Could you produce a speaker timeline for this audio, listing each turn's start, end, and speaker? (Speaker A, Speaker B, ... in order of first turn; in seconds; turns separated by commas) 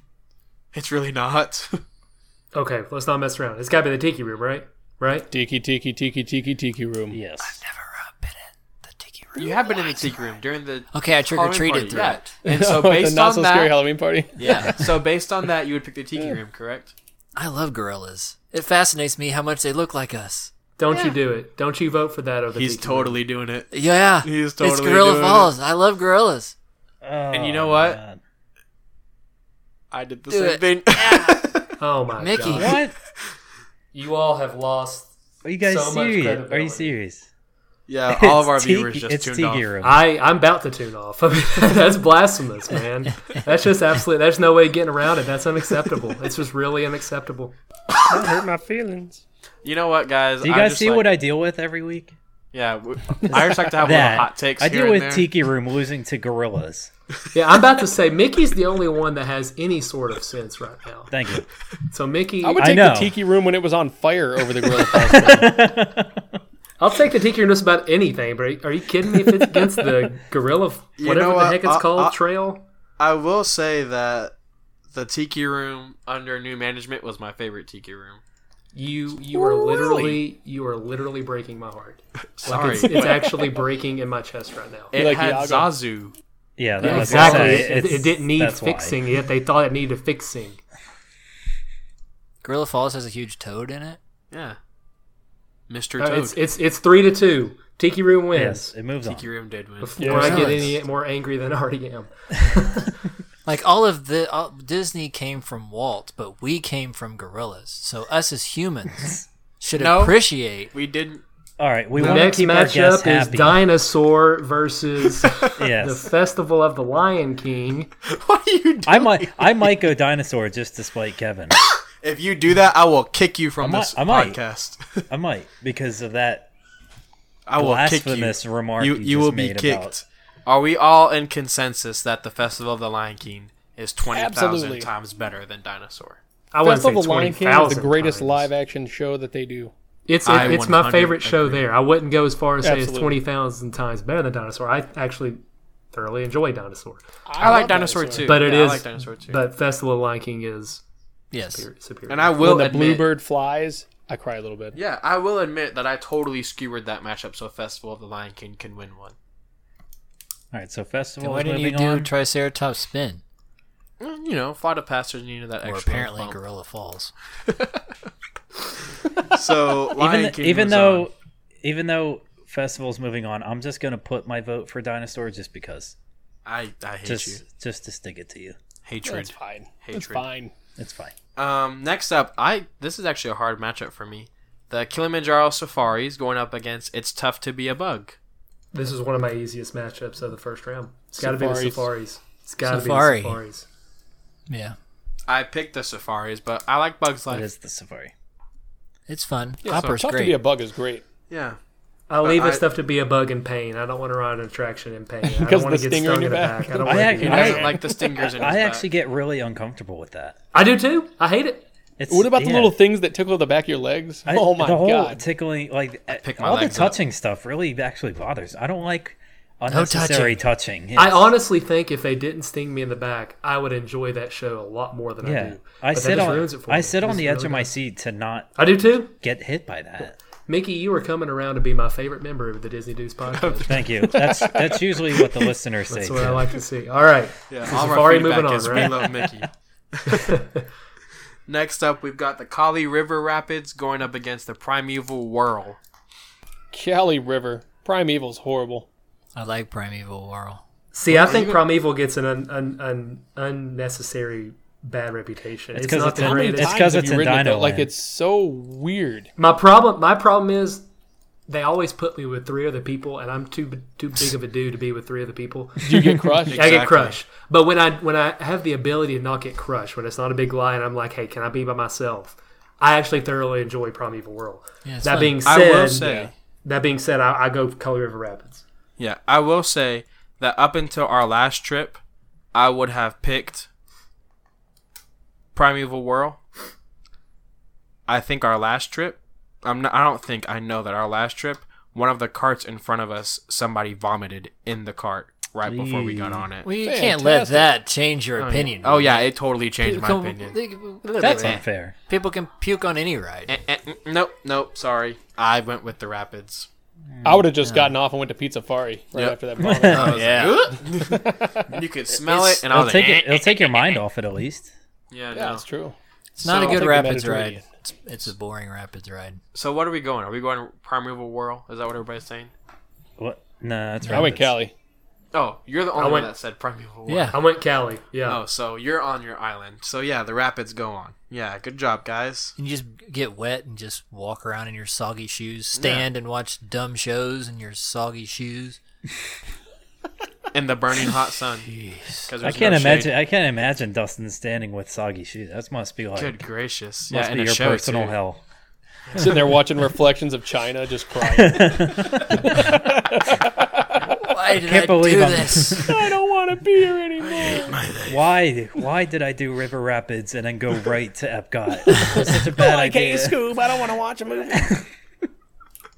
Speaker A: 0.7-1.8, Speaker B: 2.5-5.3, Speaker C: 5.3-7.2, Speaker D: 7.1-7.6, Speaker E: 7.4-10.2, Speaker A: 9.3-13.8, Speaker E: 10.9-12.3, Speaker C: 12.4-14.8, Speaker A: 14.4-16.9, Speaker E: 14.4-14.8, Speaker E: 17.4-20.5, Speaker B: 20.8-23.2, Speaker A: 22.5-25.5, Speaker E: 23.7-26.5, Speaker D: 27.0-28.2, Speaker A: 27.3-28.0, Speaker A: 29.9-31.7, Speaker E: 30.3-31.5, Speaker B: 31.8-32.8, Speaker E: 32.2-32.8, Speaker D: 32.5-32.9, Speaker B: 33.9-35.1, Speaker D: 35.4-37.3, Speaker B: 35.6-36.9, Speaker A: 37.9-39.6, Speaker D: 38.1-40.0, Speaker B: 39.8-47.5, Speaker C: 48.0-49.2, Speaker A: 49.6-51.1, Speaker D: 50.4-52.1, Speaker A: 52.5-55.3, Speaker D: 53.7-56.9, Speaker B: 57.3-61.1, Speaker D: 61.1-61.5, Speaker B: 61.9-62.8, Speaker C: 62.4-65.6, Speaker D: 62.6-63.2, Speaker D: 64.9-66.3, Speaker B: 66.8-72.6, Speaker A: 71.0-72.2, Speaker A: 73.0-74.3, Speaker A: 74.9-78.2, Speaker B: 78.7-84.9, Speaker C: 79.3-80.2, Speaker A: 82.4-83.2, Speaker A: 84.9-86.1, Speaker C: 84.9-85.7, Speaker D: 86.6-89.0, Speaker B: 86.8-90.6, Speaker E: 86.8-87.7, Speaker E: 92.4-94.0, Speaker A: 94.3-94.6, Speaker A: 95.7-96.4, Speaker B: 96.0-98.7, Speaker D: 98.3-99.3, Speaker A: 99.0-100.7, Speaker B: 99.8-103.0, Speaker C: 100.0-100.6, Speaker E: 100.1-100.7, Speaker E: 103.5-110.7, Speaker A: 109.8-111.2, Speaker D: 111.6-113.6, Speaker B: 112.0-117.9, Speaker D: 115.5-116.1, Speaker A: 118.0-119.7, Speaker D: 118.8-121.6, Speaker A: 122.0-125.1, Speaker D: 123.6-124.4, Speaker D: 125.1-126.5, Speaker A: 127.5-136.2, Speaker D: 127.5-129.9, Speaker C: 134.1-134.9, Speaker B: 136.5-138.5, Speaker C: 136.6-139.7, Speaker B: 140.1-145.4, Speaker A: 140.2-141.7, Speaker C: 142.6-143.2, Speaker B: 145.9-147.0, Speaker C: 147.2-148.5, Speaker A: 147.4-149.4, Speaker B: 148.2-150.8, Speaker E: 151.3-151.7, Speaker B: 151.4-152.6, Speaker A: 152.1-153.1, Speaker C: 152.4-154.8, Speaker A: 154.7-159.1, Speaker D: 160.5-162.1, Speaker E: 161.2-163.2, Speaker A: 164.0-166.4, Speaker E: 165.6-167.1, Speaker A: 169.2-171.1, Speaker D: 169.9-175.9, Speaker A: 176.4-177.4, Speaker D: 177.0-178.6, Speaker A: 178.8-180.2, Speaker C: 179.1-180.5, Speaker D: 180.8-181.1, Speaker A: 181.3-188.2, Speaker B: 188.7-193.7, Speaker C: 191.2-191.9, Speaker E: 192.6-193.4, Speaker E: 194.5-194.8, Speaker A: 195.3-197.5, Speaker D: 197.3-198.1, Speaker E: 199.1-200.4, Speaker C: 199.6-201.0, Speaker A: 199.7-199.9, Speaker A: 201.3-201.6, Speaker B: 202.1-207.8, Speaker A: 202.2-202.6, Speaker C: 205.2-208.1, Speaker D: 206.8-210.4, Speaker A: 207.2-208.8, Speaker B: 210.5-211.6, Speaker D: 212.0-212.8, Speaker C: 212.1-215.2, Speaker D: 214.3-221.3, Speaker A: 216.1-217.0, Speaker E: 219.7-220.4, Speaker B: 220.9-227.7, Speaker D: 225.2-228.6, Speaker B: 228.6-229.1, Speaker D: 229.2-230.2, Speaker B: 230.4-233.9, Speaker A: 233.3-233.8, Speaker D: 233.6-236.5, Speaker C: 234.0-235.3, Speaker B: 235.9-239.2, Speaker A: 237.5-240.2, Speaker B: 240.1-240.7, Speaker A: 241.5-245.8, Speaker C: 246.7-248.9, Speaker E: 249.3-250.6, Speaker B: 250.9-257.0, Speaker A: 251.1-251.6, Speaker D: 255.7-257.9, Speaker C: 256.1-259.3, Speaker B: 259.4-260.8, Speaker B: 261.5-276.1, Speaker C: 265.8-266.8, Speaker A: 266.4-267.2, Speaker E: 274.8-275.4, Speaker A: 275.4-276.3, Speaker C: 276.0-276.3, Speaker B: 276.6-278.6, Speaker A: 279.0-282.0, Speaker A: 282.5-283.7, Speaker A: 285.5-286.4, Speaker A: 288.1-296.7, Speaker D: 295.6-296.4, Speaker E: 296.6-303.5, Speaker C: 296.8-297.7, Speaker A: 298.4-301.6, Speaker D: 301.2-301.9, Speaker A: 303.5-306.7, Speaker D: 307.1-307.5, Speaker C: 307.2-311.7, Speaker E: 307.6-307.9, Speaker A: 309.1-314.0, Speaker D: 309.6-310.1, Speaker E: 309.9-310.7, Speaker D: 312.2-314.7, Speaker A: 315.1-315.6, Speaker C: 315.3-317.6, Speaker E: 316.4-319.4, Speaker A: 316.4-316.8, Speaker A: 319.5-322.5, Speaker D: 323.2-324.6, Speaker E: 324.0-324.3, Speaker C: 324.1-324.7, Speaker A: 325.3-327.4, Speaker B: 325.9-326.3, Speaker E: 327.1-327.4, Speaker B: 327.3-328.4, Speaker A: 328.2-332.5, Speaker E: 332.6-338.8, Speaker A: 335.8-336.0, Speaker A: 340.5-341.7, Speaker E: 341.7-342.3, Speaker A: 342.2-343.1, Speaker D: 342.4-346.4, Speaker A: 346.1-348.2, Speaker D: 347.1-348.4, Speaker C: 349.1-354.2, Speaker D: 351.3-352.8, Speaker E: 354.2-355.9, Speaker D: 354.6-356.0, Speaker C: 355.8-357.8, Speaker A: 357.2-358.2, Speaker D: 358.1-363.4, Speaker C: 362.1-364.8, Speaker D: 364.6-364.8